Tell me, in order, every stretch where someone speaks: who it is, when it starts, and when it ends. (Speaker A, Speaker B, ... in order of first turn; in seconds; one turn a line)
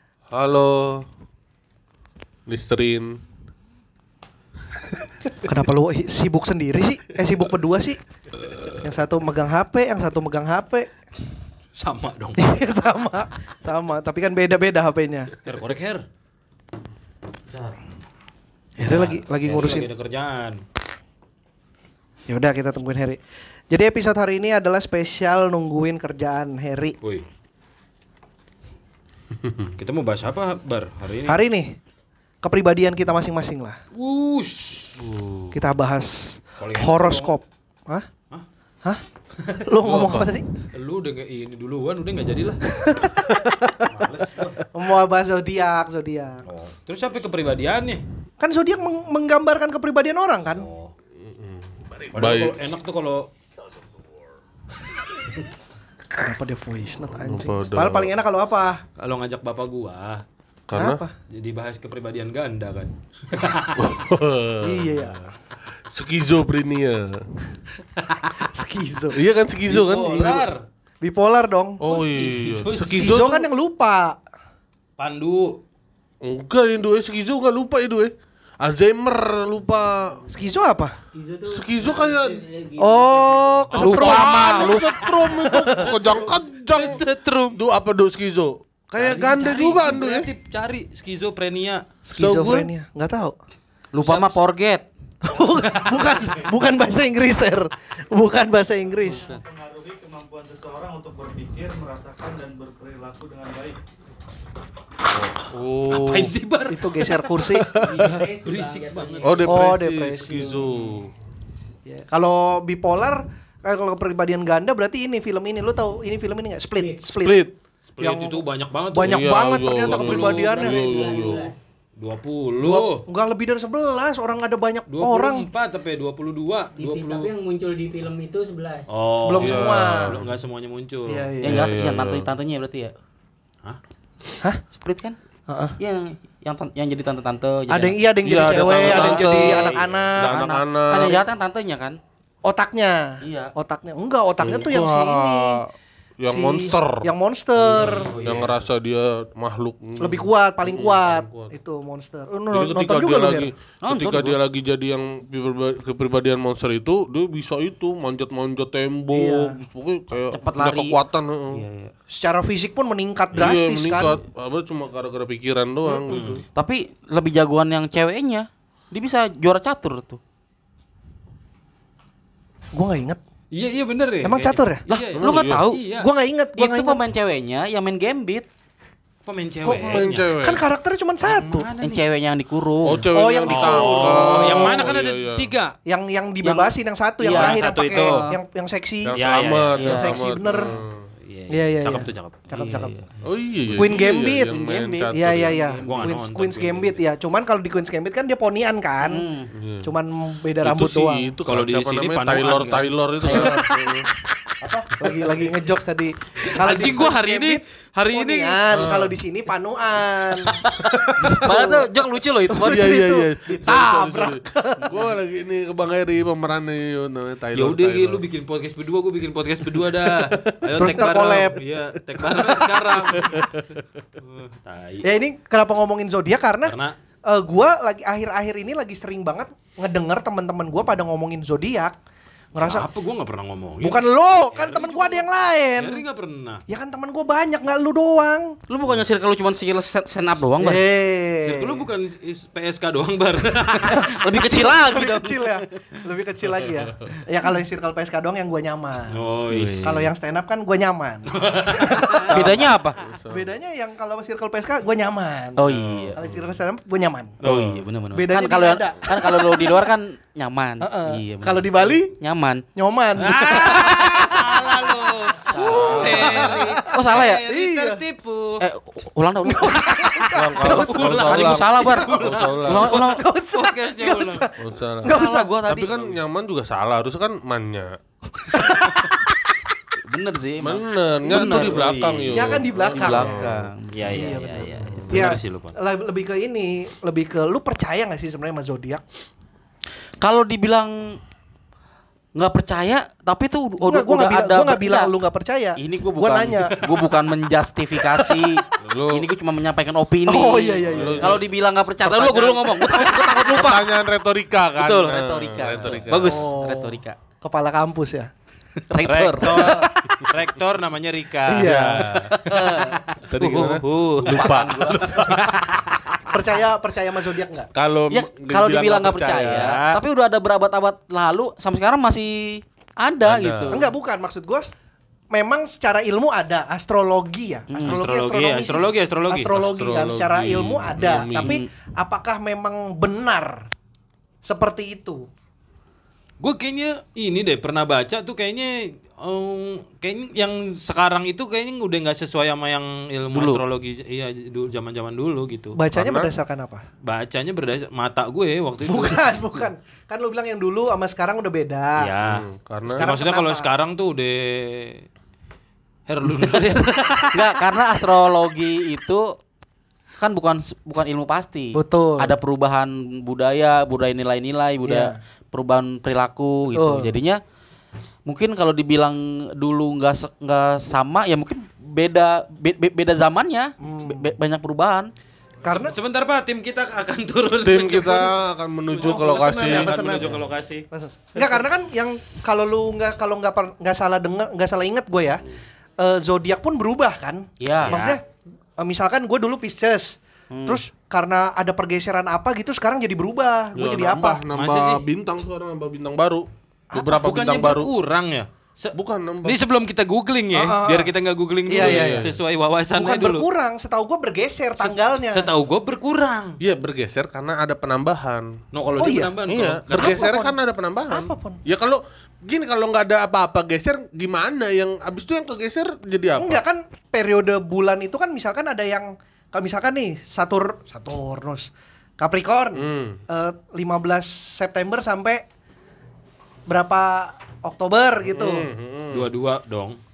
Speaker A: 0.3-1.1
Speaker A: 2.5-3.2
Speaker B: 5.4-8.0
Speaker B: 8.8-11.0
Speaker C: 11.8-12.5
Speaker B: 12.4-15.3
Speaker C: 15.4-16.1
Speaker B: 18.8-19.9
Speaker C: 18.8-20.6
Speaker B: 22.3-26.9
Speaker C: 29.8-31.4
Speaker B: 31.3-31.8
Speaker B: 32.4-33.8
Speaker C: 33.9-35.6
Speaker B: 35.5-38.1
Speaker C: 36.6-37.3
Speaker C: 39.4-40.1
Speaker B: 39.6-40.5
Speaker C: 40.7-43.3
Speaker B: 42.7-44.0
Speaker C: 43.8-44.7
Speaker B: 44.6-46.4
Speaker C: 46.5-48.0
Speaker B: 48.4-50.7
Speaker C: 50.5-50.9
Speaker A: 51.2-52.6
Speaker C: 52.1-53.3
Speaker B: 56.1-58.8
Speaker A: 57.2-58.1
Speaker C: 59.0-60.2
Speaker A: 60.7-61.0
Speaker B: 60.7-61.1
Speaker C: 61.3-63.9
Speaker A: 63.7-65.2
Speaker B: 64.6-65.3
Speaker A: 65.9-67.2
Speaker C: 68.0-68.4
Speaker B: 68.4-69.2
Speaker A: 69.1-70.5
Speaker C: 69.7-70.7
Speaker B: 71.0-71.8
Speaker A: 71.8-73.4
Speaker C: 71.9-73.2
Speaker B: 72.8-74.2
Speaker C: 75.0-75.6
Speaker A: 76.2-80.2
Speaker B: 80.3-81.0
Speaker D: 81.1-83.6
Speaker A: 81.5-82.4
Speaker B: 82.8-84.7
Speaker E: 83.8-84.9
Speaker A: 83.8-87.0
Speaker B: 85.4-85.9
Speaker C: 86.0-87.3
Speaker A: 87.5-90.3
Speaker C: 89.0-91.8
Speaker B: 92.0-93.3
Speaker A: 92.2-92.7
Speaker E: 93.9-94.8
Speaker C: 94.0-94.4
Speaker B: 95.2-99.3
Speaker C: 96.0-96.3
Speaker F: 99.0-103.8
Speaker E: 99.0-99.4
Speaker A: 105.2-106.3
Speaker C: 105.9-109.4
Speaker B: 106.7-107.8
Speaker A: 107.5-108.1
Speaker D: 107.8-109.7
Speaker A: 109.2-111.1
Speaker B: 109.5-110.8
Speaker B: 111.9-120.9
Speaker D: 116.8-117.0
Speaker A: 117.2-117.5
Speaker C: 118.0-123.1
Speaker A: 119.0-121.5
Speaker D: 120.5-121.6
Speaker B: 122.6-125.5
Speaker C: 124.9-127.3
Speaker D: 126.8-128.9
Speaker C: 128.9-131.3
Speaker B: 129.2-130.2
Speaker A: 129.4-130.2
Speaker B: 131.1-131.7
Speaker E: 131.4-132.9
Speaker A: 131.4-132.3
Speaker E: 134.7-135.2
Speaker B: 135.5-135.8
Speaker E: 135.8-139.5
Speaker B: 137.7-140.4
Speaker A: 138.2-141.2
Speaker C: 139.1-140.4
Speaker E: 140.2-142.0
Speaker B: 142.4-145.6
Speaker E: 143.2-143.5
Speaker A: 144.4-147.1
Speaker B: 146.2-148.1
Speaker A: 147.6-151.5
Speaker E: 147.7-148.6
Speaker C: 147.8-148.5
Speaker B: 150.0-153.5
Speaker A: 152.5-161.6
Speaker E: 153.8-154.4
Speaker B: 159.1-159.6
Speaker E: 160.3-161.0
Speaker E: 161.5-161.9
Speaker B: 162.1-164.2
Speaker A: 163.3-166.4
Speaker B: 165.9-166.4
Speaker C: 166.1-166.4
Speaker E: 166.6-170.2
Speaker B: 172.7-173.2
Speaker C: 173.5-176.1
Speaker B: 174.2-174.8
Speaker E: 174.9-175.8
Speaker A: 175.2-175.6
Speaker B: 175.9-177.0
Speaker E: 176.6-178.5
Speaker C: 179.2-180.3
Speaker A: 179.6-180.6
Speaker B: 180.4-181.7
Speaker C: 181.2-182.0
Speaker E: 181.8-183.1
Speaker A: 182.8-185.5
Speaker B: 183.1-185.0
Speaker C: 183.5-185.8
Speaker B: 185.9-189.2
Speaker E: 186.4-188.4
Speaker C: 187.2-188.2
Speaker A: 189.0-191.0
Speaker C: 189.1-190.0
Speaker E: 189.8-190.2
Speaker B: 189.8-190.8
Speaker C: 191.2-192.4
Speaker B: 191.5-192.9
Speaker E: 192.5-196.1
Speaker A: 193.2-195.6
Speaker B: 193.7-194.6
Speaker B: 195.1-199.2
Speaker C: 195.8-197.0
Speaker E: 199.0-199.5
Speaker A: 199.5-199.9
Speaker B: 199.8-201.3
Speaker A: 200.6-204.1
Speaker C: 201.5-204.0
Speaker E: 203.2-203.6
Speaker B: 204.7-211.9
Speaker C: 206.4-208.9
Speaker A: 208.7-209.2
Speaker E: 210.5-213.2
Speaker A: 210.9-211.5
Speaker B: 212.5-215.1
Speaker A: 212.5-218.2
Speaker C: 217.5-223.5
Speaker A: 220.1-221.0
Speaker B: 220.8-221.6
Speaker A: 222.4-223.8
Speaker C: 224.2-225.1
Speaker B: 225.0-232.0
Speaker C: 226.7-227.0
Speaker B: 232.5-232.9
Speaker C: 232.6-235.3
Speaker B: 233.8-236.0
Speaker C: 235.8-236.6
Speaker B: 236.7-238.6
Speaker E: 238.7-240.8
Speaker B: 240.6-241.9
Speaker C: 241.4-244.1
Speaker E: 243.9-245.6
Speaker B: 243.9-249.2
Speaker C: 249.1-250.0
Speaker E: 249.5-250.1
Speaker B: 249.8-252.7
Speaker C: 251.3-252.3
Speaker E: 252.3-253.0
Speaker A: 252.3-253.5
Speaker B: 253.3-255.7
Speaker E: 255.6-256.2
Speaker C: 255.7-256.1
Speaker B: 256.1-257.4
Speaker A: 256.2-256.6
Speaker C: 257.4-257.9
Speaker E: 257.4-262.6
Speaker B: 258.1-259.9
Speaker B: 260.8-262.1
Speaker B: 262.8-268.0
Speaker C: 263.2-268.6
Speaker E: 265.4-267.4
Speaker A: 265.7-266.6
Speaker E: 268.6-270.0
Speaker B: 269.4-275.5
Speaker C: 269.9-273.0
Speaker A: 270.3-272.9
Speaker E: 270.6-273.2
Speaker C: 273.5-274.5
Speaker A: 274.6-278.0
Speaker E: 275.1-276.2
Speaker B: 278.5-279.2
Speaker E: 280.0-285.3
Speaker A: 280.6-283.6
Speaker C: 281.2-282.0
Speaker B: 282.3-289.0
Speaker C: 283.9-285.8
Speaker E: 290.2-291.2
Speaker E: 292.3-295.1
Speaker B: 293.8-297.0
Speaker E: 295.8-303.9
Speaker B: 298.2-298.6
Speaker A: 298.9-299.3
Speaker B: 300.3-301.4
Speaker A: 300.9-301.5
Speaker A: 302.1-306.4
Speaker E: 304.8-307.2
Speaker B: 306.2-308.3
Speaker E: 308.9-309.9
Speaker C: 309.0-316.0
Speaker B: 309.5-309.9
Speaker B: 311.4-312.2
Speaker A: 311.9-312.4
Speaker E: 312.4-313.0
Speaker A: 313.3-315.5
Speaker E: 314.2-315.3
Speaker B: 316.3-317.7
Speaker A: 317.8-319.7
Speaker E: 318.1-323.8
Speaker C: 319.5-320.0
Speaker A: 323.2-323.9
Speaker B: 323.7-324.6
Speaker B: 325.3-333.7
Speaker E: 327.7-328.0
Speaker C: 327.8-329.6
Speaker A: 329.6-331.6
Speaker E: 331.3-331.7
Speaker B: 334.4-335.3
Speaker C: 336.4-345.8
Speaker E: 343.3-343.6
Speaker B: 345.8-346.8
Speaker A: 345.9-346.3
Speaker C: 347.0-349.4
Speaker B: 348.9-352.1
Speaker C: 352.0-352.4
Speaker A: 352.2-353.0
Speaker B: 352.9-353.7
Speaker C: 352.9-355.0
Speaker C: 356.1-357.5
Speaker E: 357.3-359.4
Speaker E: 360.2-367.4
Speaker B: 361.8-362.3
Speaker B: 364.8-365.2
Speaker B: 366.7-367.1
Speaker E: 368.2-375.1
Speaker B: 373.8-374.3
Speaker B: 375.6-375.9
Speaker C: 375.7-378.3
Speaker A: 377.6-380.1
Speaker B: 378.9-385.4
Speaker C: 378.9-380.9
Speaker B: 386.0-388.2
Speaker E: 387.6-388.0
Speaker C: 387.9-388.2
Speaker B: 388.8-394.4
Speaker E: 390.5-390.8
Speaker A: 393.8-397.9
Speaker C: 394.5-395.1
Speaker B: 396.9-397.3
Speaker C: 397.2-403.5
Speaker A: 398.9-399.6
Speaker B: 400.5-401.1
Speaker B: 401.7-402.3
Speaker A: 401.8-402.3
Speaker B: 402.9-405.5
Speaker C: 404.8-406.6
Speaker A: 406.6-408.6
Speaker C: 408.7-410.3
Speaker B: 409.0-409.3
Speaker A: 409.5-416.6
Speaker B: 409.9-410.6
Speaker B: 411.1-411.6
Speaker B: 416.4-425.4
Speaker A: 422.8-423.2
Speaker B: 426.7-428.7
Speaker A: 428.3-429.3
Speaker C: 429.1-430.0